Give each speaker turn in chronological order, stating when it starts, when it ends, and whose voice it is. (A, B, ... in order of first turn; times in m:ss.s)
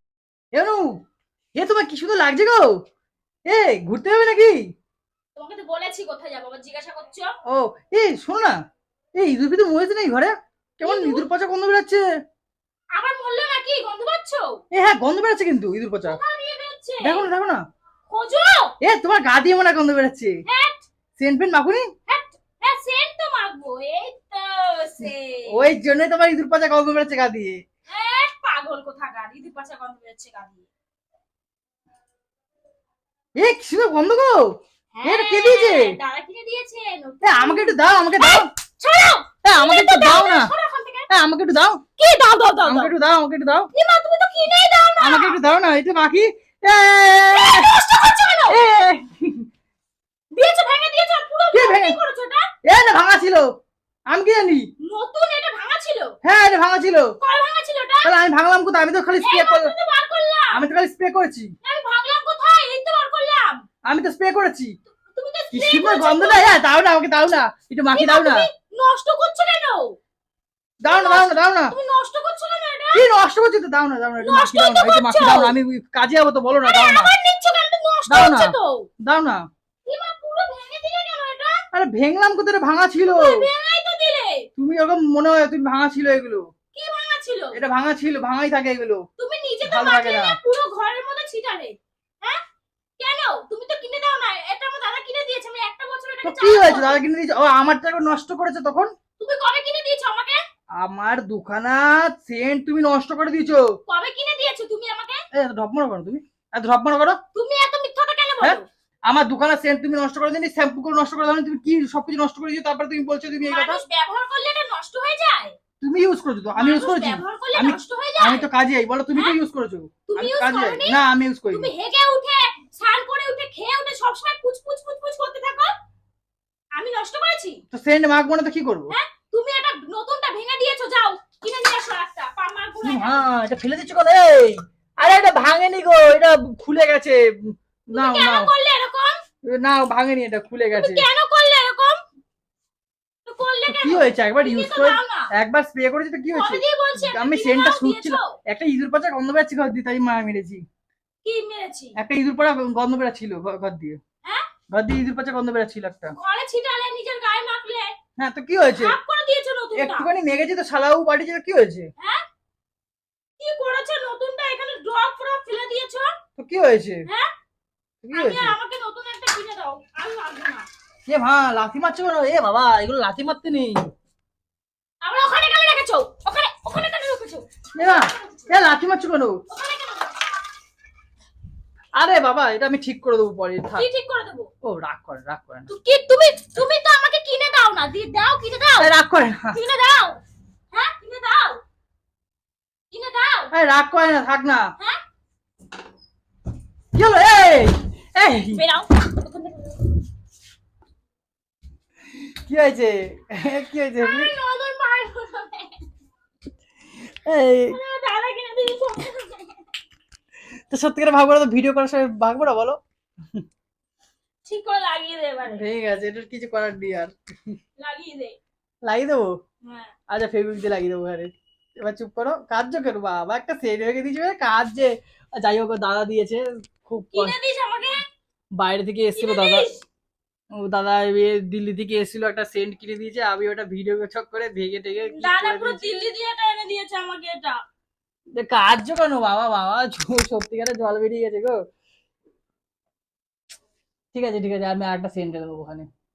0:00.5-0:00.9 A
0:01.5-0:02.7 A
0:03.5-0:04.6 A
0:05.4-0:07.3 B
0:07.5-0:08.6 A
0:09.2-0:12.0 A
0:10.8-0:11.3 B
0:13.0-0:14.6 B
0:14.7-0:16.2 A
0:16.1-0:17.3 B
0:17.0-0:17.6 A
0:18.1-0:18.7 B
0:18.8-0:20.3 A
0:20.4-0:20.8 B
0:21.2-0:21.9 A
0:22.1-0:25.5 B
0:25.5-0:27.6 A
0:27.9-0:30.6 B
0:33.4-0:34.4 A
0:34.9-0:41.1 B
0:35.0-0:36.0 A
0:37.2-0:38.5 A
0:39.4-0:40.5 A
0:41.1-0:41.8 A
0:42.0-0:42.9 B
0:42.6-0:43.7 A
0:43.7-0:45.4 B
0:45.0-0:47.8 A
0:47.3-0:48.6 B
0:48.5-0:49.4 A
0:50.3-0:52.5 B
0:51.5-0:52.0 A
0:52.6-0:53.5 A
0:54.1-0:54.7 A
0:54.8-0:56.2 B
0:56.2-0:57.2 A
0:57.2-0:58.2 B
0:58.0-0:59.7 A
0:59.2-1:00.6 B
1:00.5-1:01.5 A
1:01.6-1:03.6 B
1:03.8-1:04.8 A
1:05.0-1:06.6 B
1:05.5-1:08.4 A
1:07.9-1:10.0 B
1:10.8-1:11.8 A
1:10.8-1:13.0 B
1:12.9-1:17.1 A
1:14.2-1:15.5 B
1:16.6-1:18.9 B
1:18.1-1:19.4 A
1:19.8-1:21.6 B
1:21.7-1:23.5 A
1:23.0-1:24.5 B
1:24.6-1:26.4 A
1:26.7-1:27.6 B
1:27.5-1:29.0 A
1:29.2-1:32.4 B
1:29.6-1:30.4 A
1:33.0-1:37.0 B
1:36.2-1:38.9 A
1:39.2-1:40.4 B
1:40.8-1:43.6 A
1:43.9-1:45.2 B
1:45.3-1:47.2 A
1:47.3-1:48.6 B
1:48.4-1:53.8 A
1:53.4-1:55.6 B
1:55.8-2:01.7 A
1:56.6-1:58.5 B
2:00.1-2:05.7 B
2:06.8-2:07.6 B
2:07.7-2:08.9 A
2:08.9-2:13.2 B
2:12.8-2:18.5 A
2:17.9-2:19.1 B
2:19.4-2:21.0 A
2:20.7-2:22.0 B
2:23.2-2:25.3 B
2:23.7-2:30.6 A
2:26.3-2:28.4 B
2:31.2-2:32.0 B
2:32.0-2:34.0 A
2:34.2-2:34.5 B
2:34.7-2:36.1 A
2:36.2-2:38.0 B
2:38.2-2:39.0 A
2:38.7-2:40.1 B
2:39.8-2:41.9 A
2:42.0-2:42.2 B
2:43.4-2:46.1 B
2:46.4-2:47.0 A
2:48.0-2:48.6 A
2:48.1-2:50.7 B
2:51.1-2:53.8 A
2:55.0-2:58.6 B
2:57.8-2:59.4 A
2:59.5-3:00.2 B
3:02.0-3:03.9 A
3:03.7-3:04.5 B
3:04.6-3:05.7 A
3:05.7-3:08.9 B
3:08.8-3:09.6 A
3:09.5-3:10.2 B
3:10.7-3:11.6 B
3:12.9-3:13.5 B
3:13.5-3:14.7 A
3:16.9-3:18.6 A
3:18.5-3:19.9 B
3:22.4-3:24.3 A
3:24.0-3:25.8 B
3:27.1-3:27.8 A
3:27.7-3:29.6 B
3:30.7-3:32.8 A
3:34.4-3:35.6 B
3:35.4-3:37.6 A
3:37.8-3:38.4 B
3:38.8-3:39.3 A
3:39.6-3:39.9 B
3:40.1-3:47.4 A
3:47.1-3:48.0 B
3:48.6-3:49.7 A
3:49.1-3:49.8 B
3:50.6-3:55.9 A
3:55.0-3:57.6 B
3:58.3-4:01.6 A
4:04.1-4:05.9 A